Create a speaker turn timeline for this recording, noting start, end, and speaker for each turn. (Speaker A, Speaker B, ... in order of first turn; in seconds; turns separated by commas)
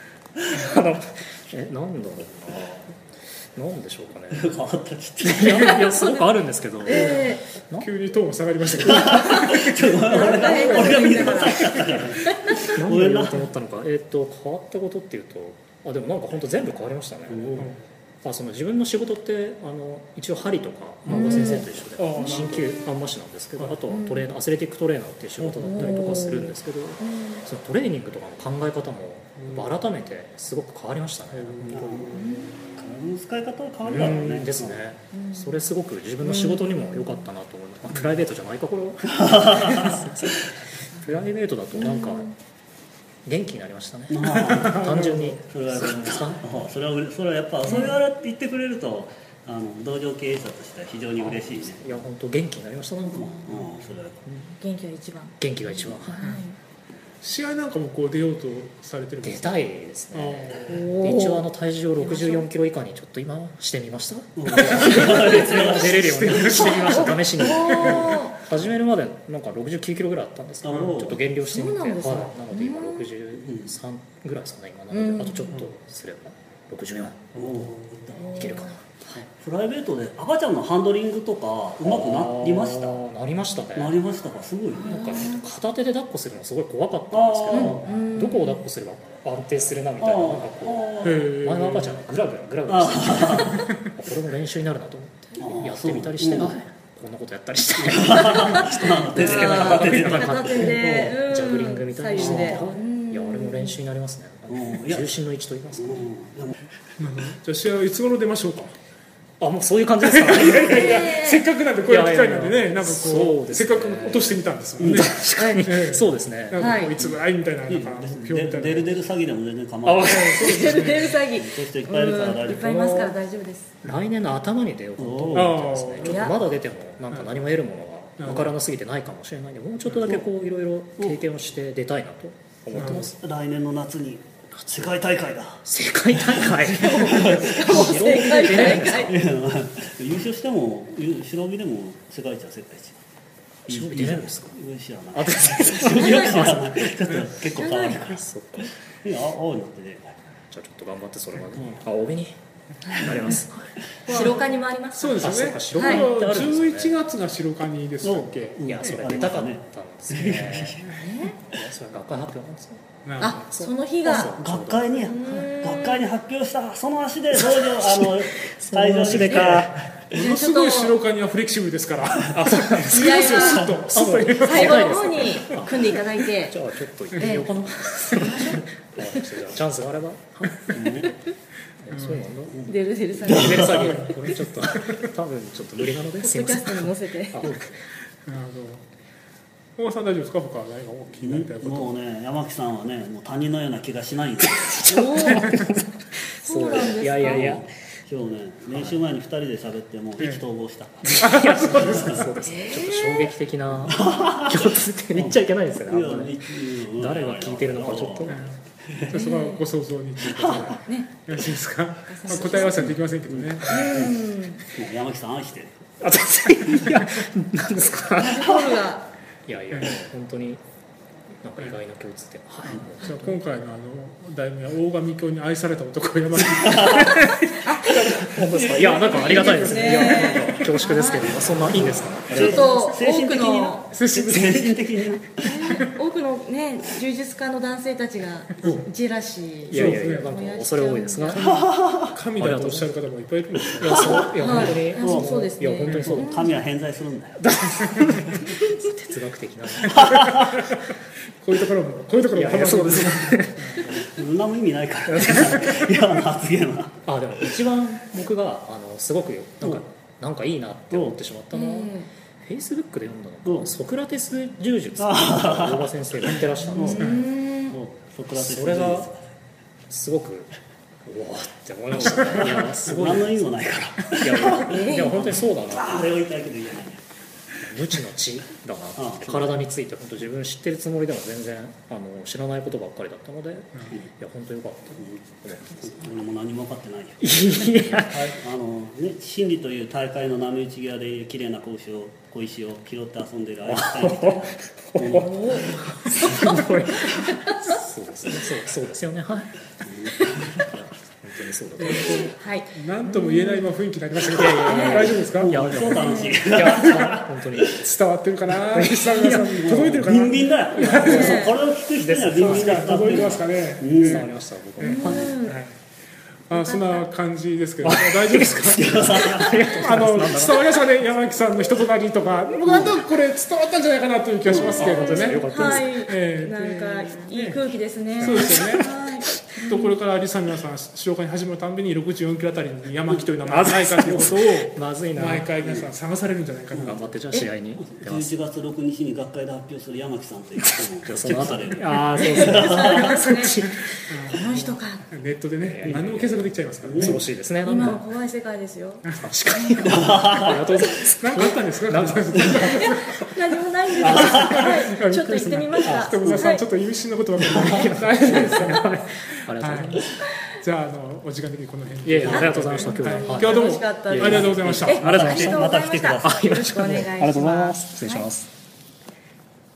Speaker A: 0.5-2.9, Speaker A: 3.5-4.6, Speaker B: 4.3-5.8, Speaker A: 5.2-7.9, Speaker C: 5.5-5.8, Speaker D: 5.5-6.0, Speaker D: 6.8-7.5, Speaker C: 6.9-11.8, Speaker B: 8.8-13.5, Speaker D: 10.1-12.8, Speaker A: 12.7-17.7, Speaker B: 17.3-17.7, Speaker A: 18.2-31.9, Speaker C: 21.1-22.8, Speaker D: 21.1-21.7, Speaker D: 23.9-24.2, Speaker C: 25.4-26.0, Speaker D: 25.6-27.4, Speaker C: 29.4-29.7, Speaker C: 31.3-32.7, Speaker B: 31.7-34.8, Speaker D: 32.1-32.5, Speaker A: 33.9-40.5, Speaker D: 35.1-35.6, Speaker D: 36.2-37.2, Speaker B: 39.2-39.8, Speaker A: 41.0-42.3, Speaker D: 41.8-42.3, Speaker A: 43.3-46.4, Speaker B: 44.1-52.0, Speaker C: 44.5-44.9, Speaker D: 47.7-48.0, Speaker A: 51.2-53.4, Speaker B: 53.1-54.2, Speaker C: 53.5-53.9, Speaker A: 54.3-54.5, Speaker D: 54.6-55.4, Speaker A: 55.4-56.2, Speaker D: 56.1-56.6, Speaker C: 57.2-60.9, Speaker A: 59.2-77.4, Speaker D: 60.7-61.4, Speaker D: 62.0-62.5, Speaker B: 64.4-66.7, Speaker C: 64.5-68.2, Speaker D: 66.9-68.4, Speaker B: 70.6-71.2, Speaker D: 71.5-73.0, Speaker B: 73.4-73.7, Speaker D: 74.9-75.6, Speaker C: 77.3-78.0, Speaker B: 77.4-78.5, Speaker D: 78.2-78.7, Speaker A: 78.3-79.3, Speaker B: 79.4-83.0, Speaker A: 81.8-84.0, Speaker B: 83.8-85.3, Speaker D: 84.8-85.4, Speaker A: 84.9-106.1, Speaker B: 87.1-87.8, Speaker D: 87.5-88.6, Speaker B: 90.0-91.3, Speaker C: 91.0-92.0, Speaker B: 92.7-93.6, Speaker B: 95.4-96.6, Speaker B: 97.8-101.2, Speaker D: 98.4-103.8, Speaker B: 102.2-102.7, Speaker B: 104.5-105.2, Speaker B: 105.8-106.5, Speaker C: 107.0-108.7, Speaker A: 109.4-111.3, Speaker C: 110.0-119.1, Speaker D: 110.5-111.5, Speaker A: 111.8-114.3, Speaker B: 114.8-115.1, Speaker A: 114.9-116.8, Speaker D: 115.4-115.7, Speaker D: 116.6-116.9, Speaker B: 117.0-120.5, Speaker A: 119.8-121.1, Speaker D: 120.3-123.8, Speaker C: 120.6-121.1, Speaker B: 121.3-123.1, Speaker A: 122.5-123.1, Speaker A: 123.8-133.2, Speaker B: 125.0-125.5, Speaker C: 125.3-126.3, Speaker D: 126.0-126.4, Speaker C: 128.2-128.5, Speaker C: 132.7-133.1, Speaker B: 132.8-143.0, Speaker A: 134.6-135.0, Speaker A: 135.7-139.1, Speaker D: 136.7-139.1, Speaker A: 143.7-144.6, Speaker B: 143.7-148.2, Speaker A: 145.1-146.8, Speaker D: 145.9-146.6, Speaker D: 147.6-148.0, Speaker A: 147.9-148.7, Speaker B: 149.0-150.1, Speaker A: 150.5-152.4, Speaker D: 152.9-153.4, Speaker A: 152.9-154.4, Speaker B: 153.0-153.3, Speaker C: 154.1-154.4, Speaker D: 154.1-155.2, Speaker C: 154.9-158.6, Speaker A: 155.2-157.0, Speaker D: 155.8-156.1, Speaker B: 158.0-160.9, Speaker A: 158.7-160.8, Speaker C: 160.2-161.1, Speaker D: 160.9-161.4, Speaker A: 161.5-165.4, Speaker C: 163.1-163.5, Speaker D: 163.2-164.4, Speaker B: 164.1-169.7, Speaker D: 165.0-166.0, Speaker A: 167.4-169.9, Speaker D: 169.2-169.6, Speaker C: 169.6-175.3, Speaker D: 170.1-171.0, Speaker A: 172.3-181.1, Speaker D: 172.9-173.7, Speaker D: 174.4-176.6, Speaker D: 177.2-177.5, Speaker D: 178.2-179.2, Speaker B: 180.7-181.1, Speaker A: 181.8-182.6, Speaker C: 181.9-182.2, Speaker D: 182.7-184.3, Speaker A: 183.2-187.7, Speaker B: 183.3-183.6, Speaker D: 186.1-187.5, Speaker C: 188.3-188.8, Speaker C: 189.8-192.0, Speaker B: 191.2-195.4, Speaker A: 194.6-197.7, Speaker D: 195.0-195.4, Speaker D: 196.4-197.5, Speaker B: 197.2-202.2, Speaker A: 198.7-199.0, Speaker C: 200.2-200.4, Speaker A: 201.0-208.5, Speaker C: 201.2-202.3, Speaker D: 202.4-203.3, Speaker B: 203.9-204.5, Speaker B: 205.1-209.1, Speaker C: 208.3-213.9, Speaker D: 209.1-209.6, Speaker A: 210.4-210.6, Speaker D: 210.8-211.1, Speaker D: 212.1-212.9, Speaker B: 213.3-215.8, Speaker D: 213.7-214.7, Speaker A: 216.0-218.6, Speaker D: 218.2-219.1, Speaker A: 219.5-220.6, Speaker A: 221.4-223.4, Speaker C: 222.6-230.7, Speaker D: 223.1-223.3, Speaker B: 226.5-227.1, Speaker D: 227.1-228.0, Speaker A: 228.1-232.7, Speaker D: 229.0-231.4, Speaker B: 229.0-229.6, Speaker B: 231.8-235.5, Speaker D: 232.4-233.9, Speaker C: 233.9-234.8, Speaker D: 235.4-241.4, Speaker C: 238.6-238.9, Speaker A: 239.7-241.4, Speaker C: 239.7-240.3, Speaker C: 241.3-244.8, Speaker B: 241.4-242.1, Speaker A: 242.4-242.9, Speaker A: 243.8-246.5, Speaker B: 243.9-245.4, Speaker D: 244.3-246.5, Speaker B: 246.0-247.4, Speaker A: 247.4-250.3, Speaker B: 249.9-250.6, Speaker C: 249.9-250.2, Speaker C: 251.4-254.0, Speaker A: 252.3-253.9, Speaker B: 253.8-257.0, Speaker A: 255.1-255.9, Speaker A: 257.1-267.1, Speaker B: 260.9-261.2, Speaker D: 261.5-262.1, Speaker B: 263.4-263.7, Speaker B: 265.0-267.1, Speaker D: 266.8-267.8, Speaker B: 267.7-269.2, Speaker A: 268.3-269.1, Speaker A: 269.9-270.5, Speaker A: 271.1-276.1, Speaker B: 272.0-277.0, Speaker D: 274.6-275.1, Speaker A: 277.6-286.1, Speaker B: 279.0-279.6, Speaker B: 285.8-287.2, Speaker A: 287.2-288.3, Speaker B: 288.0-295.9, Speaker A: 293.7-299.6, Speaker D: 295.1-297.8, Speaker B: 299.9-300.6, Speaker D: 300.2-300.5, Speaker A: 300.6-302.2, Speaker C: 301.8-305.6, Speaker D: 301.8-303.7, Speaker A: 304.3-308.0, Speaker D: 304.6-305.2, Speaker B: 305.3-307.2, Speaker D: 305.9-307.0, Speaker C: 306.8-311.4, Speaker A: 308.5-309.8, Speaker B: 309.3-314.3, Speaker A: 310.7-313.4, Speaker D: 311.0-311.6, Speaker C: 312.4-315.7, Speaker A: 314.0-315.3, Speaker D: 314.8-315.6, Speaker B: 315.0-315.3, Speaker D: 316.5-317.1, Speaker C: 316.5-319.1, Speaker A: 317.8-320.6, Speaker B: 318.8-319.6, Speaker C: 319.7-327.6, Speaker B: 322.6-322.9, Speaker B: 324.5-324.9, Speaker A: 324.8-326.1, Speaker D: 324.8-329.9, Speaker C: 328.2-328.9, Speaker A: 328.2-328.6, Speaker C: 329.6-337.1, Speaker A: 333.5-335.5, Speaker B: 335.6-335.9, Speaker B: 336.7-337.0, Speaker A: 336.8-338.4, Speaker B: 337.8-342.8, Speaker A: 340.6-343.9, Speaker D: 342.1-343.6, Speaker C: 342.8-343.2, Speaker C: 344.1-347.2, Speaker D: 344.3-345.0, Speaker A: 345.6-348.1, Speaker B: 346.8-347.2, Speaker D: 347.6-350.0, Speaker A: 349.1-352.8, Speaker B: 349.9-350.4, Speaker C: 351.2-353.2, Speaker D: 352.6-356.7, Speaker A: 354.0-354.6, Speaker C: 354.1-359.0, Speaker A: 355.8-356.5, Speaker A: 357.4-360.1, Speaker D: 358.3-358.6, Speaker C: 359.6-360.0, Speaker C: 360.6-365.0, Speaker A: 362.0-368.5, Speaker D: 362.2-368.3, Speaker B: 364.2-366.5